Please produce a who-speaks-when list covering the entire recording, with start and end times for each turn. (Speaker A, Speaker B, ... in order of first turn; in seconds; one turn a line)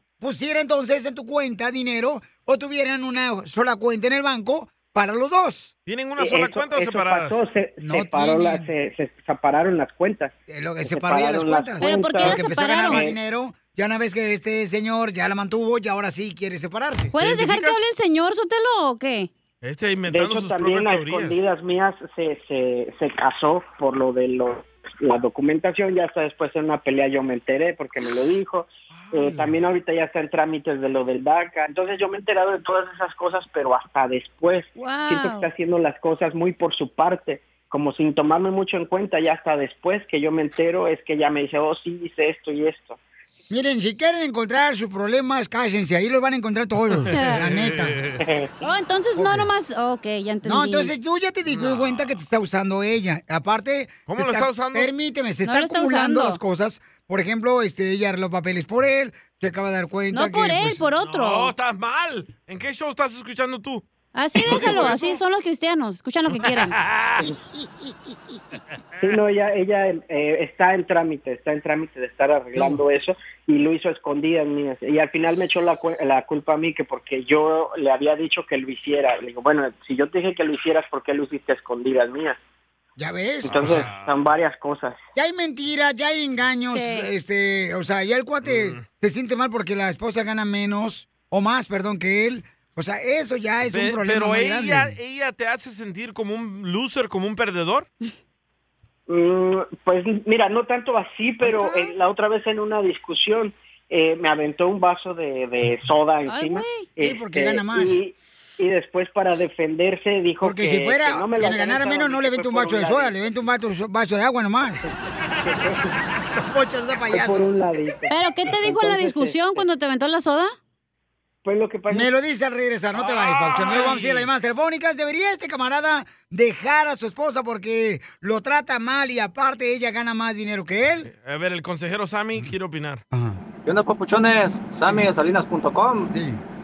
Speaker A: 0.2-5.7
Speaker B: 5.9-7.4
Speaker C: 6.2-13.2
Speaker A: 7.8-8.7
Speaker A: 10.5-17.1
Speaker D: 11.8-13.1
Speaker D: 17.1-19.3
Speaker B: 17.2-17.8
Speaker B: 19.6-21.4
Speaker C: 20.1-43.0
Speaker B: 28.9-29.6
Speaker D: 34.8-35.5
Speaker A: 43.5-48.0
Speaker B: 47.0-48.2
Speaker D: 47.1-47.4
Speaker C: 48.2-48.5
Speaker D: 48.6-50.9
Speaker A: 49.2-49.5
Speaker A: 50.4-60.8
Speaker B: 51.5-52.2
Speaker B: 54.1-54.9
Speaker D: 55.5-56.4
Speaker D: 60.1-61.5
Speaker B: 61.0-63.9
Speaker D: 64.2-66.8
Speaker B: 64.4-65.1
Speaker A: 64.5-65.2
Speaker B: 66.3-67.3
Speaker C: 69.0-82.4
Speaker A: 72.6-72.8
Speaker A: 83.0-83.9
Speaker B: 83.4-84.1
Speaker C: 83.4-85.0
Speaker A: 85.2-94.9
Speaker D: 86.7-87.1
Speaker B: 88.5-88.8
Speaker B: 93.7-97.9
Speaker C: 99.1-113.2
Speaker D: 106.3-106.9
Speaker A: 107.0-108.0
Speaker A: 110.4-114.8
Speaker C: 115.4-115.9
Speaker A: 116.4-117.5
Speaker C: 117.1-119.6
Speaker D: 118.1-120.5
Speaker C: 121.5-122.1
Speaker A: 121.9-131.1
Speaker B: 123.0-124.3
Speaker B: 131.1-133.0
Speaker A: 133.1-133.4
Speaker E: 133.7-136.1
Speaker A: 136.1-136.4